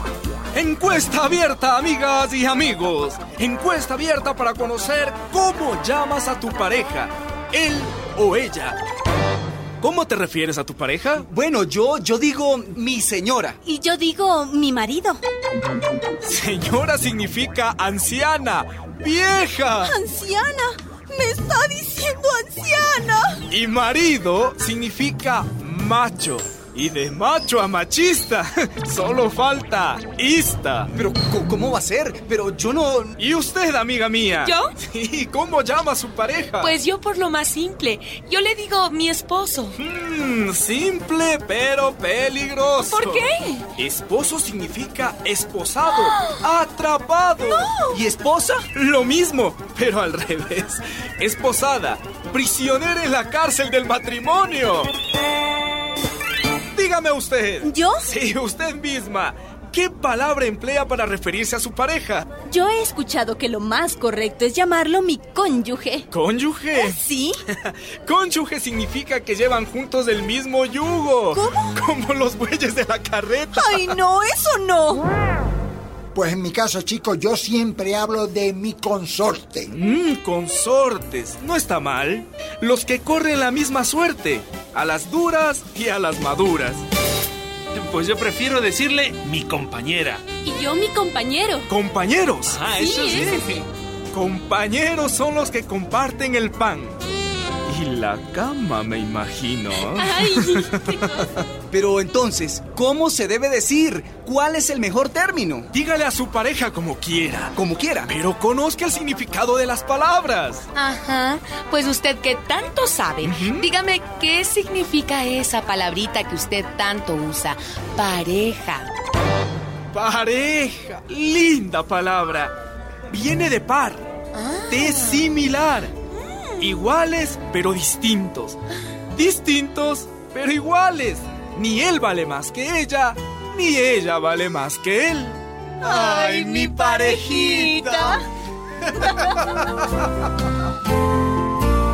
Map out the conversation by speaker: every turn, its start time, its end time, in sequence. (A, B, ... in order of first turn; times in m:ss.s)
0:00.5-0:08.8 A
0:09.8-0:11.3 A
0:11.3-0:13.6 B
0:13.6-0:15.2 C
0:16.2-0:20.0 A
0:19.8-0:23.4 C
0:23.5-0:30.9 A
0:30.9-0:33.1 B
0:33.2-0:36.8 A
0:36.7-0:39.7 D
0:39.8-0:47.7 A
0:42.9-0:43.6 C
0:47.4-0:47.9 C
0:47.9-0:48.6 B
0:48.7-0:54.9 A
0:56.7-1:02.3 A
0:57.6-0:58.1 C
1:02.4-1:06.1 C
1:06.1-1:14.0 A
1:06.7-1:07.4 C
1:11.3-1:11.7 C
1:13.5-1:15.0 C
1:16.1-1:19.8 E
1:19.7-1:26.8 A
1:27.7-1:30.2 F
1:30.4-1:31.6 C
1:31.7-1:37.0 A
1:32.5-1:33.2 F
1:32.8-1:33.4 C
1:37.6-1:41.4 A
1:39.9-1:41.3 C
1:41.7-1:45.7 B
1:45.7-1:50.7 A
1:47.5-1:48.1 B
1:50.7-1:58.9 D
1:53.2-1:53.7 A
1:59.9-2:02.5 A
2:03.1-2:04.0 A
2:04.3-2:05.3 D
2:04.7-2:05.9 A
2:06.2-2:06.7 D
2:06.6-2:08.6 A
2:09.1-2:18.2 A
2:16.2-2:16.6 D
2:17.4-2:18.0 C
2:18.8-2:19.6 A